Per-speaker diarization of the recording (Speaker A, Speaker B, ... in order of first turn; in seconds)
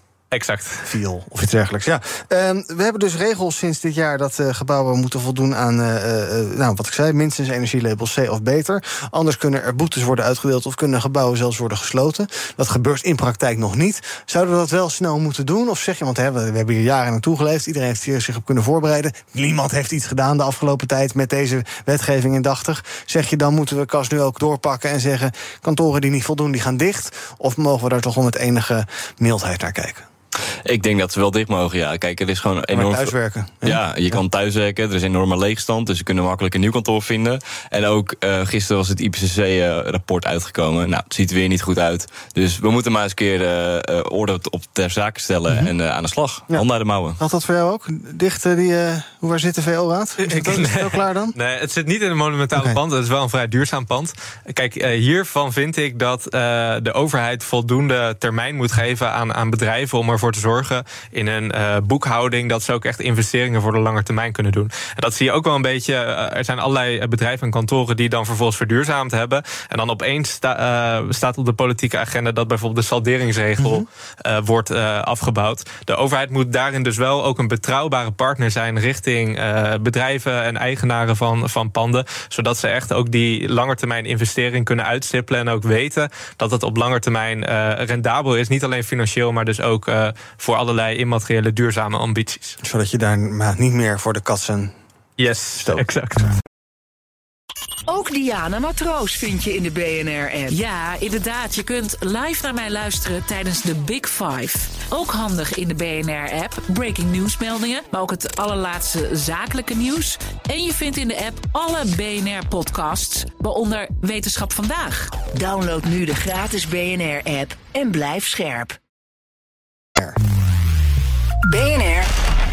Speaker A: 0.3-0.8, 50.2-92.6, 95.2-96.3
Speaker B: 0.8-30.1, 32.7-34.2, 47.2-51.3, 52.5-52.8, 73.6-73.8, 92.6-94.8, 95.6-95.8
Speaker C: 30.6-47.2
Speaker D: 97.9-115.2
Speaker E: 115.2-118.8, 121.5-122.1